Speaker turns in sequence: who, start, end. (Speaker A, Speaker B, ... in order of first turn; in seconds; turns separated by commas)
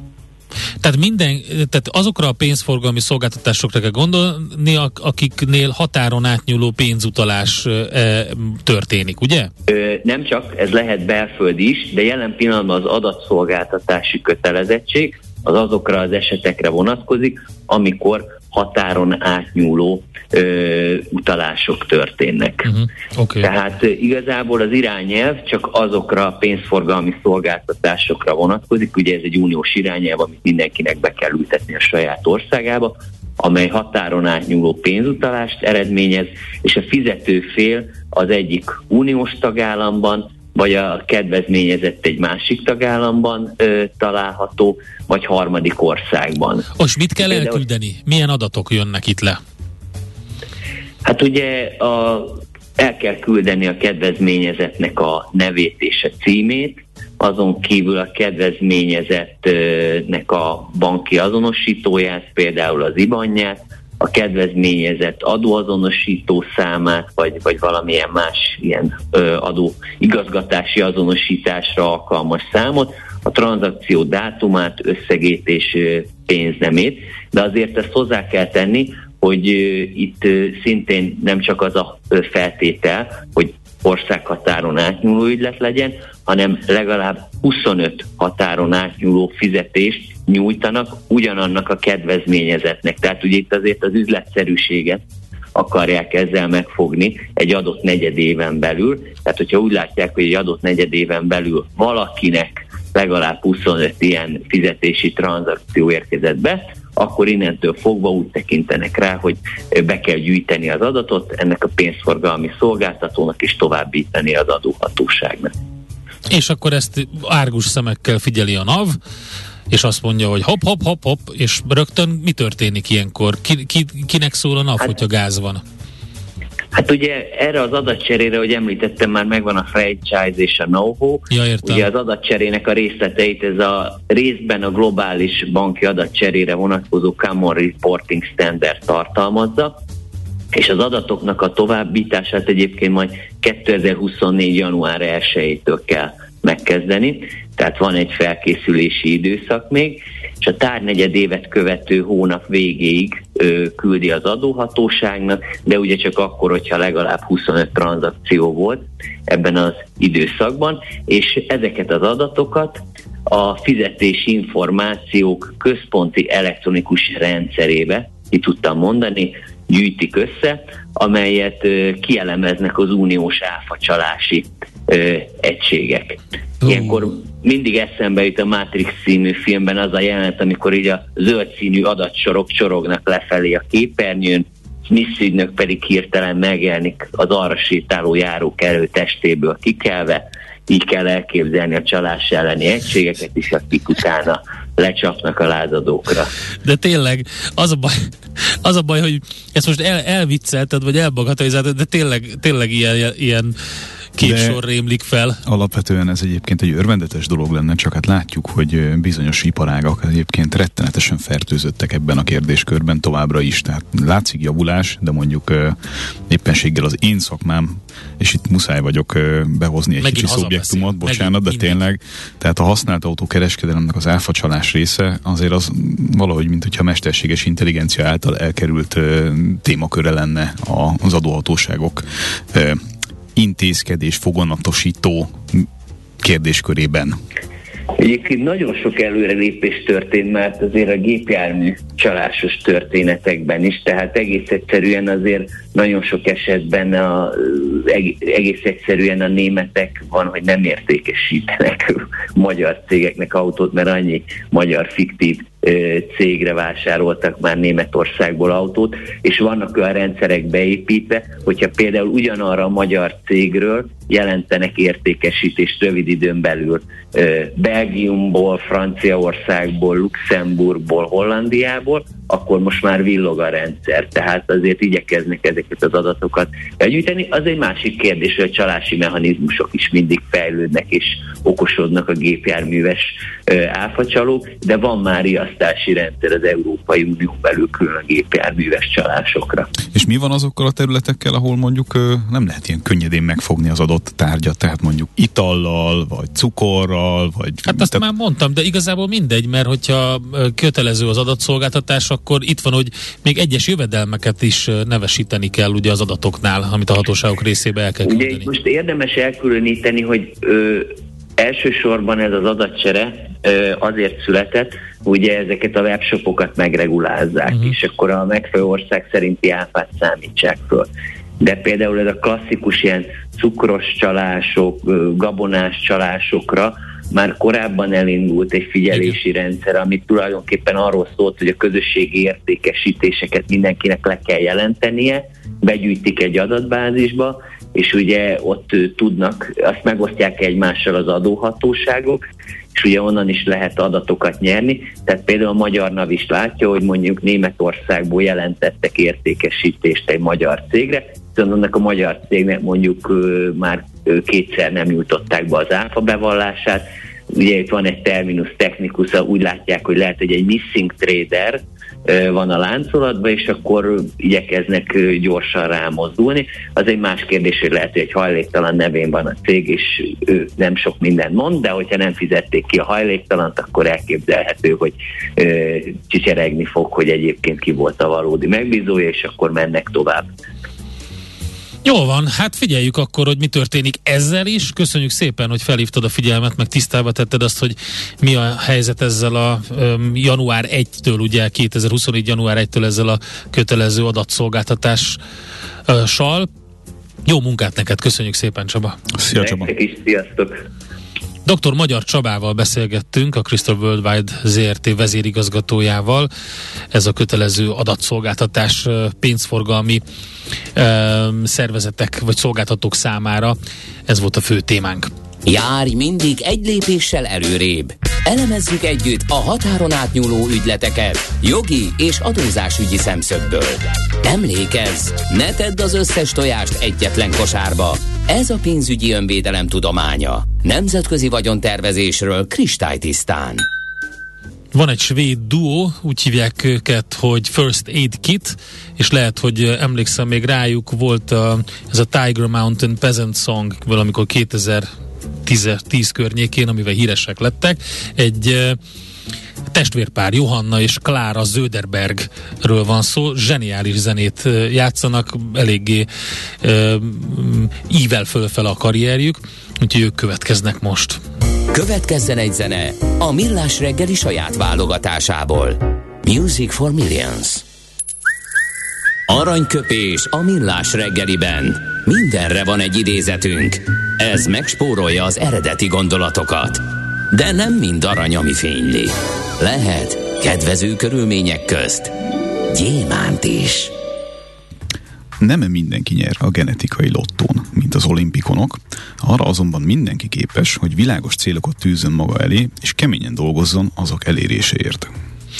Speaker A: 0.8-9.5, Speaker B: 9.7-22.8, Speaker A: 22.7-23.5, Speaker B: 23.4-46.7, Speaker A: 46.8-49.4, Speaker B: 47.2-47.6, Speaker B: 51.0-95.0, Speaker B: 95.5-115.5, Speaker A: 116.3-119.0, Speaker A: 119.7-125.6, Speaker B: 126.7-139.7, Speaker A: 131.3-131.9, Speaker B: 140.5-196.3, Speaker A: 176.7-177.0, Speaker A: 196.6-198.1, Speaker A: 198.6-203.6, Speaker A: 204.2-205.4, Speaker C: 204.2-204.6, Speaker C: 205.4-215.8, Speaker C: 216.3-232.8, Speaker A: 220.0-221.8, Speaker C: 233.3-235.7, Speaker C: 236.2-237.2, Speaker B: 238.0-289.7, Speaker C: 289.9-298.0, Speaker A: 297.7-308.5, Speaker B: 308.0-320.9, Speaker A: 317.5-317.7, Speaker B: 321.4-342.2, Speaker B: 342.8-380.3, Speaker A: 381.8-395.2, Speaker A: 395.9-396.5, Speaker A: 397.2-399.0, Speaker C: 399.2-399.7, Speaker B: 399.4-400.6, Speaker A: 401.4-406.3, Speaker A: 406.9-410.0, Speaker A: 410.8-415.1, Speaker D: 415.5-433.6, Speaker A: 434.7-444.9, Speaker A: 445.5-448.8, Speaker A: 449.7-456.1, Speaker A: 456.6-461.2, Speaker D: 461.7-467.6, Speaker D: 469.3-482.1, Speaker D: 482.7-483.9, Speaker C: 485.4-495.1